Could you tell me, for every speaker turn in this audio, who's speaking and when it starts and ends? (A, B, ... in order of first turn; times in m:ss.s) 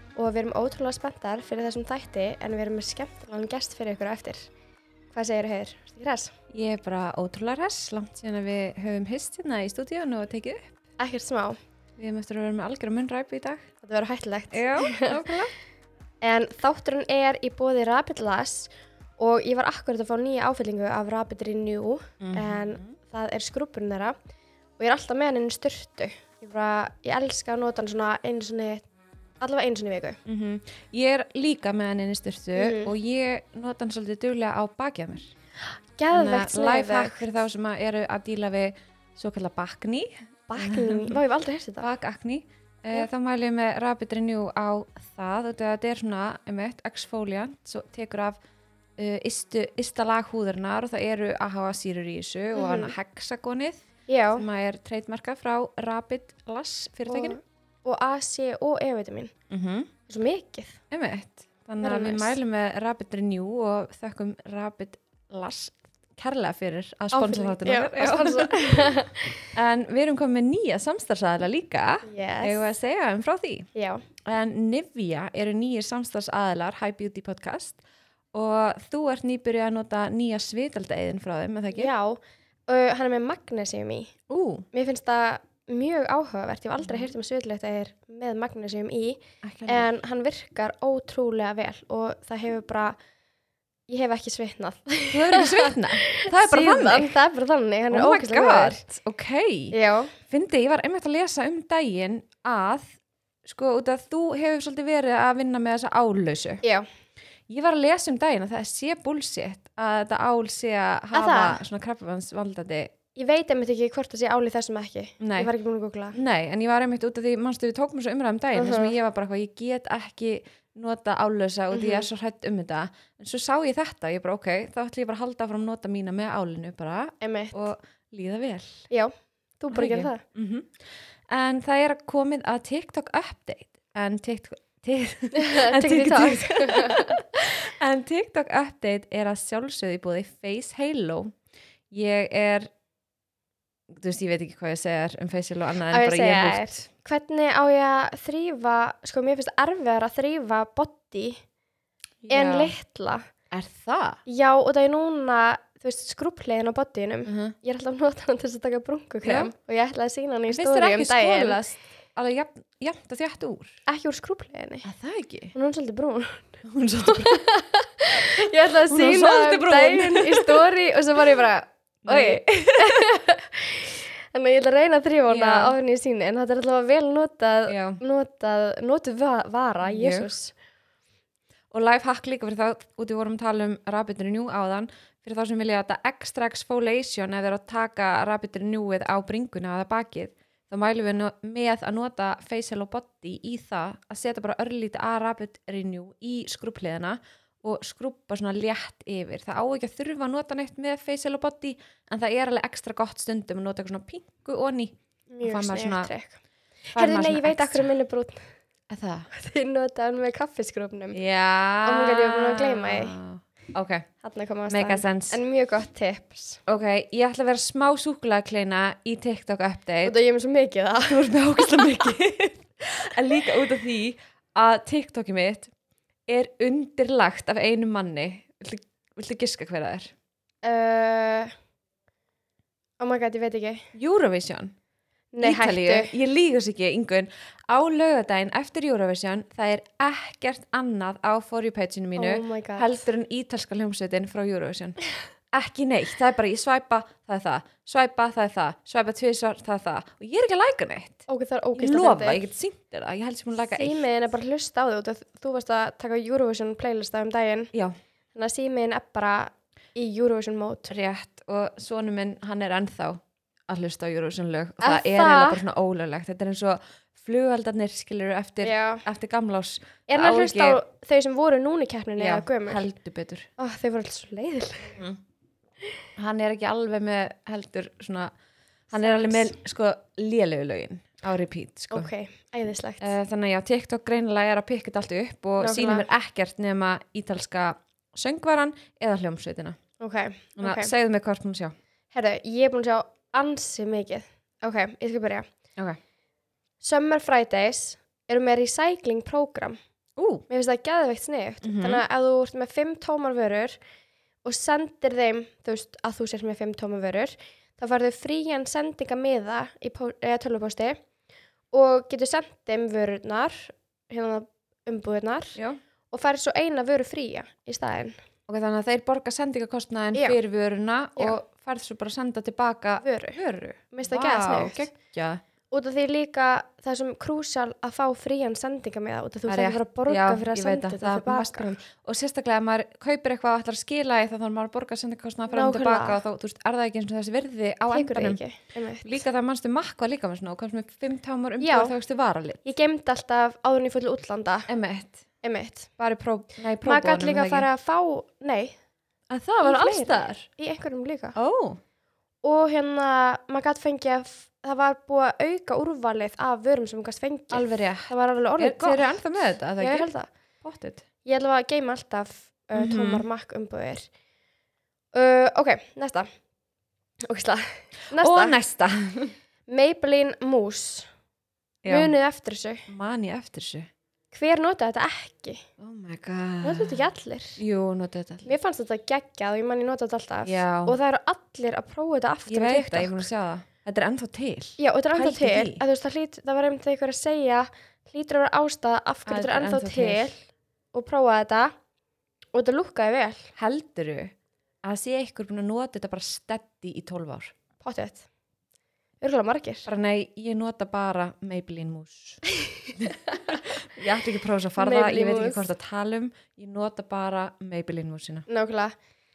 0:00.2-0:04.5 A
0:05.1-0:06.3 A
0:06.5-0:10.8 B
0:11.0-0:11.6 A
0:12.0-0:13.7 B
0:13.8-0:15.2 A
0:14.5-0:15.5 B
0:16.2-0:24.2 A
0:22.2-0:23.0 B
0:24.8-0:28.8 A
0:29.4-0:30.2 A
0:30.2-0:35.3 B
0:32.6-0:32.9 A
0:36.0-0:37.4 A
0:36.1-0:41.2 B
0:40.5-0:41.9 A
0:41.8-0:48.4 B
0:49.0-0:57.4 B
0:52.5-0:53.0 A
0:54.1-0:54.4 A
0:57.1-0:59.3 A
0:59.5-0:59.9 B
1:00.1-1:00.8 A
1:00.9-1:13.7 B
1:01.8-1:02.4 A
1:07.1-1:09.5 A
1:12.0-1:12.7 A
1:13.7-1:14.0 A
1:14.2-1:17.8 B
1:18.3-1:21.9 B
1:21.7-1:24.1 A
1:24.3-1:24.7 B
1:24.7-1:33.0 A
1:26.8-1:27.1 B
1:29.4-1:29.9 B
1:33.9-1:38.8 A
1:35.1-1:37.2 B
1:37.9-1:42.9 B
1:39.7-1:40.2 A
1:43.4-1:46.6 B
1:46.6-1:46.9 A
1:47.5-1:52.9 B
1:51.1-1:51.6 A
1:53.2-1:56.2 A
1:55.2-1:55.5 B
1:56.1-2:08.9 B
1:58.5-1:59.0 A
2:01.7-2:02.1 A
2:07.2-2:07.6 A
2:08.9-2:10.2 A
2:09.7-2:10.7 B
2:11.3-2:21.4 B
2:15.3-2:17.5 A
2:21.9-2:22.7 B
2:23.9-2:26.9 B
2:25.9-2:31.4 A
2:32.2-2:32.7 B
2:32.3-2:33.3 A
2:33.5-2:34.2 B
2:34.3-2:41.6 A
2:37.3-2:37.6 B
2:39.2-2:39.5 B
2:40.5-2:43.8 B
2:43.9-2:44.9 A
2:44.8-2:45.5 B
2:45.5-3:00.5 A
2:46.6-2:47.4 B
2:48.2-2:50.7 B
2:52.0-2:53.1 B
2:55.3-2:55.8 B
2:57.7-2:58.0 B
2:59.8-3:00.3 B
3:01.7-3:26.1 B
3:25.3-3:28.6 A
3:26.9-3:27.9 B
3:28.9-3:29.3 B
3:29.3-3:31.2 A
3:31.1-3:34.1 B
3:31.8-3:33.2 A
3:34.2-3:36.6 A
3:34.7-3:35.4 B
3:36.7-3:40.2 B
3:40.0-3:41.9 A
3:41.1-3:45.7 B
3:46.3-3:50.1 B
3:50.6-3:51.5 A
3:53.0-3:53.8 A
3:53.9-3:54.7 B
3:55.3-3:56.1 A
3:55.4-4:05.0 B
4:02.2-4:03.0 A
4:05.5-4:11.2 B
4:11.3-4:12.4 A
4:11.8-4:14.0 B
4:13.6-4:17.7 A
4:18.4-4:20.9 A
4:20.9-4:30.8 B
4:24.8-4:25.6 A
4:28.6-4:29.0 A
4:30.1-4:32.9 A
4:32.2-4:33.5 B
4:33.6-4:35.0 A
4:36.2-4:38.3 B
4:38.9-4:42.1 B
4:39.0-4:39.5 A
4:41.9-4:43.1 A
4:43.0-4:49.8 B
4:45.6-4:46.1 A
4:50.0-4:50.9 A
4:50.6-4:51.8 B
4:52.1-4:55.5 A
4:56.8-4:59.8 A
5:00.2-5:00.4 B
5:00.5-5:03.8 A
5:01.6-5:02.0 B
5:04.4-5:11.0 A
5:11.7-5:15.6 A
5:16.1-5:18.2 A
5:18.5-5:25.4 B
5:23.0-5:23.4 A
5:23.9-5:24.9 A
5:25.7-5:31.8 A
5:29.5-5:38.4 B
5:35.5-5:36.2 A
5:37.9-5:39.2 A
5:39.0-5:42.6 B
5:41.6-5:41.9 A
5:42.6-5:44.7 A
5:44.7-5:45.3 B
5:45.4-5:45.9 A
5:46.0-5:47.7 B
5:46.8-5:48.8 A
5:49.3-5:50.5 B
5:49.6-5:51.4 A
5:51.4-5:51.8 B
5:52.4-6:00.3 A
5:57.5-6:00.1 B
6:00.6-6:01.0 B
6:01.2-6:04.1 A
6:02.8-6:03.2 B
6:05.1-6:06.3 A
6:07.3-6:08.6 A
6:08.1-6:09.3 B
6:09.7-6:11.1 A
6:11.8-6:12.1 B
6:11.9-6:12.9 A
6:12.9-6:13.9 B
6:14.3-6:15.6 A
6:15.8-6:17.0 B
6:16.6-6:17.6 A
6:17.6-6:18.6 B
6:18.5-6:23.3 A
6:20.4-6:21.0 B
6:22.5-6:25.8 B
6:24.8-6:31.8 A
6:29.3-6:30.3 B
6:32.5-6:33.5 A
6:33.6-6:34.3 B
6:34.8-6:37.5 B
6:37.8-6:38.3 A
6:39.2-6:39.9 A
6:39.9-6:42.4 B
6:43.0-6:48.5 B
6:43.3-6:43.6 A
6:44.8-6:45.7 A
6:48.5-6:49.0 A